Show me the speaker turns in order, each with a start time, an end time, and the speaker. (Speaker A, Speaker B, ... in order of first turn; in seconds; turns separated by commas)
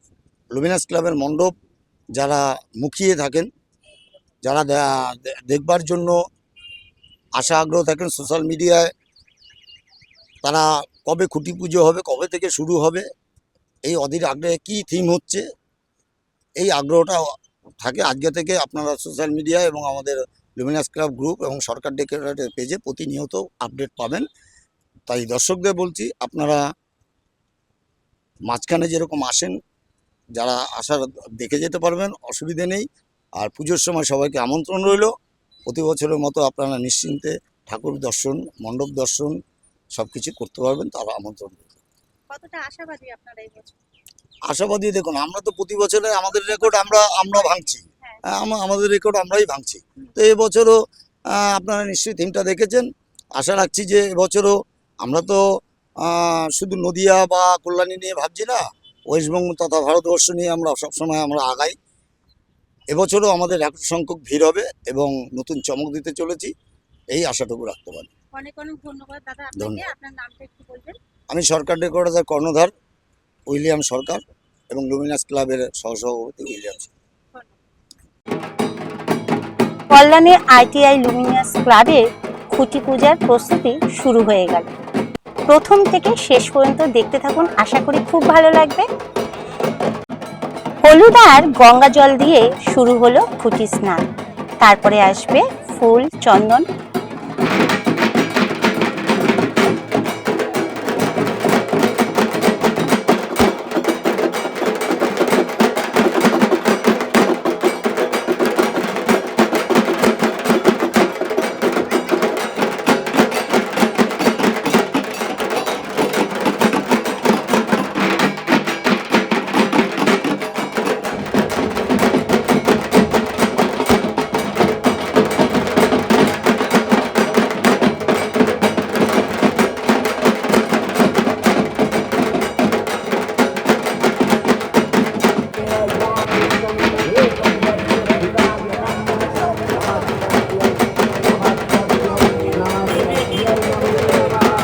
Speaker A: 0.5-1.5, Speaker A: 2.1-3.5, Speaker A: 4.4-6.2, Speaker A: 7.4-8.9, Speaker A: 10.4-13.1, Speaker A: 13.8-15.4, Speaker A: 16.6-24.3, Speaker A: 25.1-26.6, Speaker A: 28.5-29.6, Speaker A: 30.4-32.9, Speaker A: 33.4-35.1, Speaker A: 35.7-39.4, Speaker A: 40.0-41.8, Speaker B: 42.3-43.8, Speaker A: 44.5-50.8, Speaker A: 51.3-55.5, Speaker A: 56.0-61.8, Speaker A: 62.9-66.5, Speaker A: 67.1-68.1, Speaker B: 68.4-71.0, Speaker A: 69.6-69.9, Speaker A: 71.3-72.7, Speaker A: 73.5-76.9, Speaker B: 79.9-84.7, Speaker B: 85.5-88.9, Speaker B: 90.8-94.0, Speaker B: 94.6-96.7